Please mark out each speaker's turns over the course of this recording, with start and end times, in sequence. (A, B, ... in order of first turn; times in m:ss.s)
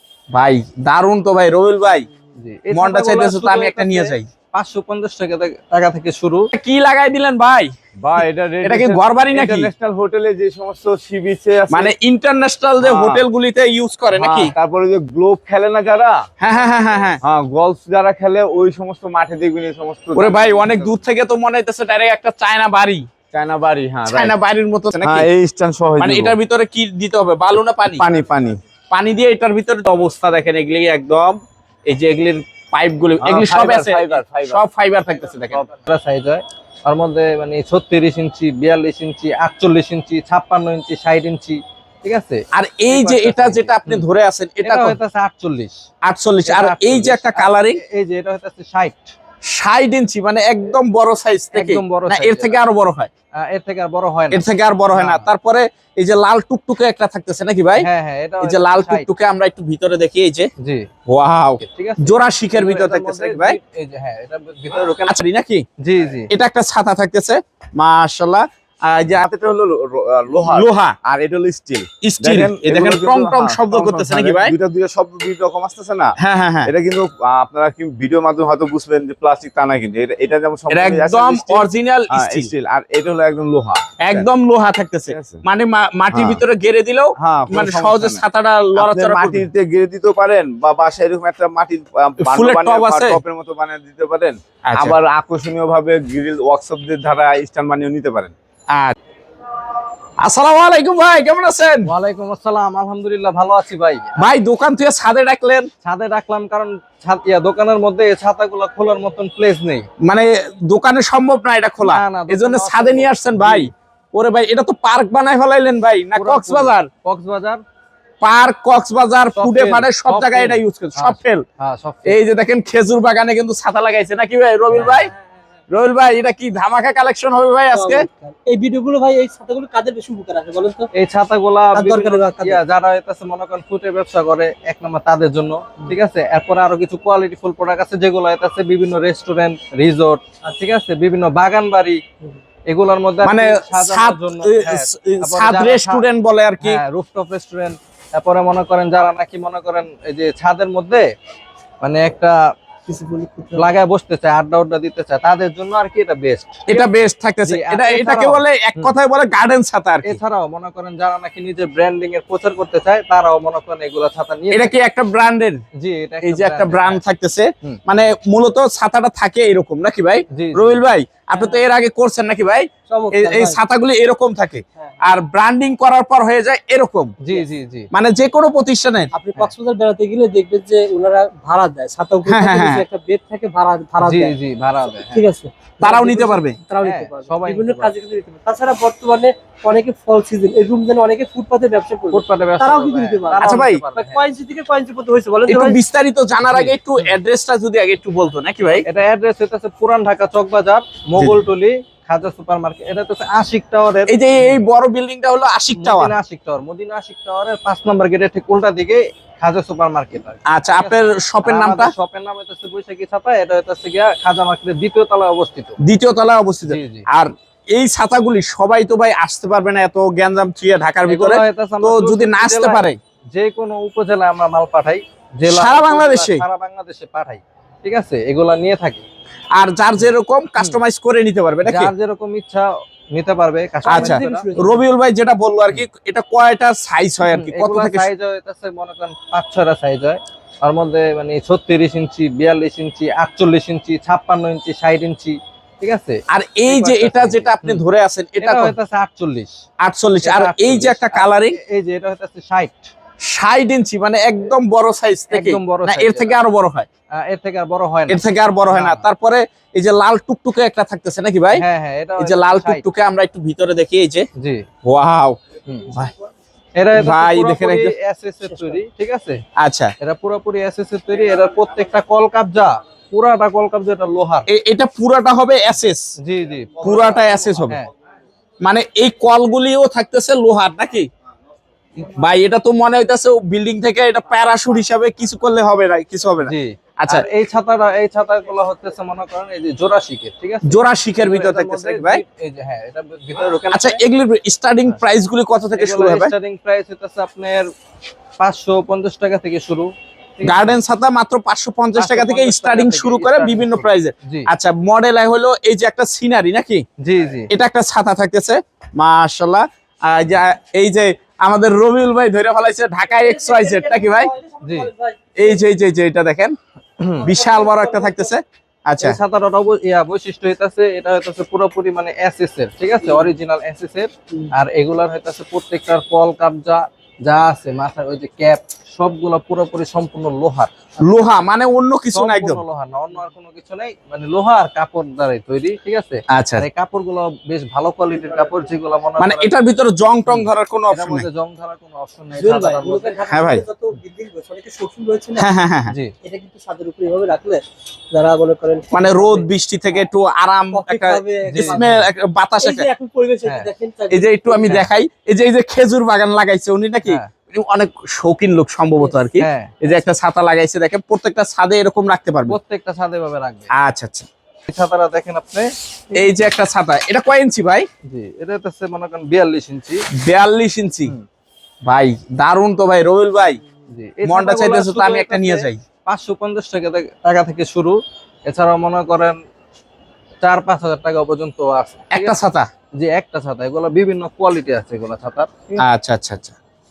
0:00.3-0:02.1 A
0:02.4-0:06.5 B
0:02.7-0:04.3 A
0:06.5-0:07.7 A
0:08.0-0:11.9 C
0:08.6-0:09.7 A
0:11.7-0:14.5 A
0:12.8-0:13.2 C
0:14.2-0:16.2 C
0:16.4-0:17.2 A
0:17.2-0:20.9 C
0:20.2-0:23.1 A
0:23.3-0:24.4 C
0:24.1-0:25.3 A
0:25.0-0:26.4 C
0:26.0-0:28.1 A
0:27.9-0:28.6 C
0:28.9-0:35.7 A
0:33.2-0:34.6 C
0:35.5-0:44.1 B
0:42.5-0:45.0 A
0:44.6-0:45.8 B
0:46.0-0:47.8 A
0:46.4-0:49.2 B
0:49.5-0:53.1 A
0:51.5-0:52.6 B
0:53.4-0:55.3 B
0:54.3-0:57.9 A
0:57.8-0:59.1 B
0:58.4-1:00.5 A
1:00.6-1:00.9 B
1:01.1-1:03.6 A
1:01.6-1:05.1 B
1:05.0-1:05.6 A
1:05.8-1:06.3 B
1:06.3-1:09.2 A
1:09.1-1:16.1 C
1:10.4-1:11.0 A
1:12.0-1:14.6 A
1:16.2-1:16.7 A
1:16.6-1:24.3 C
1:20.7-1:22.5 A
1:24.0-1:29.5 A
1:25.1-1:25.4 C
1:26.1-1:26.4 C
1:27.2-1:28.2 C
1:28.8-1:38.3 C
1:32.2-1:33.2 A
1:34.6-1:35.0 A
1:40.2-1:41.9 A
1:41.9-1:44.2 B
1:44.2-1:45.7 A
1:45.8-1:49.9 B
1:50.0-1:56.9 A
1:51.8-1:53.7 B
1:56.1-1:57.6 B
1:58.2-2:01.4 A
1:59.4-2:02.2 B
2:02.1-2:05.1 A
2:04.7-2:05.0 B
2:05.7-2:08.1 A
2:07.7-2:10.9 D
2:11.0-2:22.0 B
2:11.7-2:12.6 D
2:22.7-2:26.0 B
2:23.2-2:26.8 A
2:26.6-2:31.0 B
2:31.8-2:32.4 B
2:32.9-2:33.7 D
2:33.6-2:36.9 B
2:36.7-2:40.2 A
2:37.4-2:38.9 B
2:40.0-2:44.7 B
2:44.5-2:45.6 A
2:45.8-2:47.0 B
2:46.2-2:57.1 A
2:50.4-2:50.8 B
2:51.4-2:51.6 D
2:52.9-2:53.6 D
2:57.2-2:57.9 B
2:57.9-2:59.1 A
2:59.1-3:04.4 D
3:02.3-3:02.8 A
3:04.0-3:05.2 B
3:05.1-3:15.8 D
3:05.8-3:06.6 A
3:06.8-3:07.9 B
3:12.1-3:14.2 B
3:13.4-3:13.8 A
3:15.5-3:18.8 A
3:16.4-3:17.2 B
3:18.8-3:24.5 B
3:21.2-3:21.4 A
3:24.1-3:26.2 A
3:25.7-3:35.8 B
3:30.5-3:31.9 A
3:35.8-3:43.0 A
3:36.7-3:37.0 B
3:41.1-3:49.0 B
3:45.4-3:46.4 A
3:49.5-3:51.9 A
3:51.6-3:54.6 B
3:53.8-3:54.9 D
3:53.9-3:58.1 A
3:57.2-4:07.8 B
4:06.3-4:08.8 A
4:08.4-4:09.6 B
4:09.8-4:11.6 A
4:10.2-4:12.9 B
4:13.2-4:16.9 A
4:15.3-4:16.4 B
4:17.2-4:19.1 B
4:18.1-4:21.6 A
4:21.6-4:22.8 B
4:22.2-4:24.3 A
4:24.4-4:24.6 B
4:24.8-4:25.4 A
4:26.8-4:29.4 B
4:26.9-4:27.9 A
4:29.6-4:29.9 A
4:30.0-4:34.4 B
4:34.5-4:36.0 A
4:36.2-4:37.9 B
4:36.8-4:37.8 A
4:38.6-4:41.1 A
4:42.0-4:47.3 A
4:46.4-4:54.0 B
4:50.6-4:52.2 A
4:53.7-4:56.3 A
4:55.7-4:57.7 B
4:58.4-5:00.8 B
5:00.4-5:06.8 A
5:02.0-5:04.5 B
5:07.0-5:07.5 B
5:07.5-5:14.3 A
5:13.3-5:15.2 D
5:14.6-5:14.9 B
5:15.4-5:16.6 A
5:17.0-5:17.3 B
5:17.2-5:18.3 D
5:17.2-5:19.2 A
5:19.0-5:30.7 B
5:31.0-5:32.6 A
5:32.1-5:39.5 B
5:36.3-5:36.7 A
5:39.2-5:41.3 A
5:40.3-5:43.2 B
5:42.3-5:45.5 D
5:43.3-5:43.6 A
5:45.4-5:46.0 A
5:45.9-5:46.2 B
5:46.2-5:49.5 D
5:48.9-5:52.9 A
5:50.7-5:52.0 D
5:51.4-5:52.1 B
5:52.6-5:54.8 D
5:53.4-5:53.7 B
5:54.1-6:02.6 A
5:54.6-5:54.9 B
5:57.1-5:57.3 B
5:59.4-5:59.8 B
6:02.5-6:03.7 B
6:03.7-6:04.3 A
6:04.7-6:05.7 B
6:06.1-6:07.9 A
6:08.1-6:10.0 B
6:10.2-6:11.1 A
6:11.9-6:13.6 A
6:13.9-6:19.4 B
6:14.2-6:15.8 A
6:20.4-6:22.4 B
6:22.1-6:22.7 A
6:23.0-6:25.8 B
6:25.8-6:26.6 A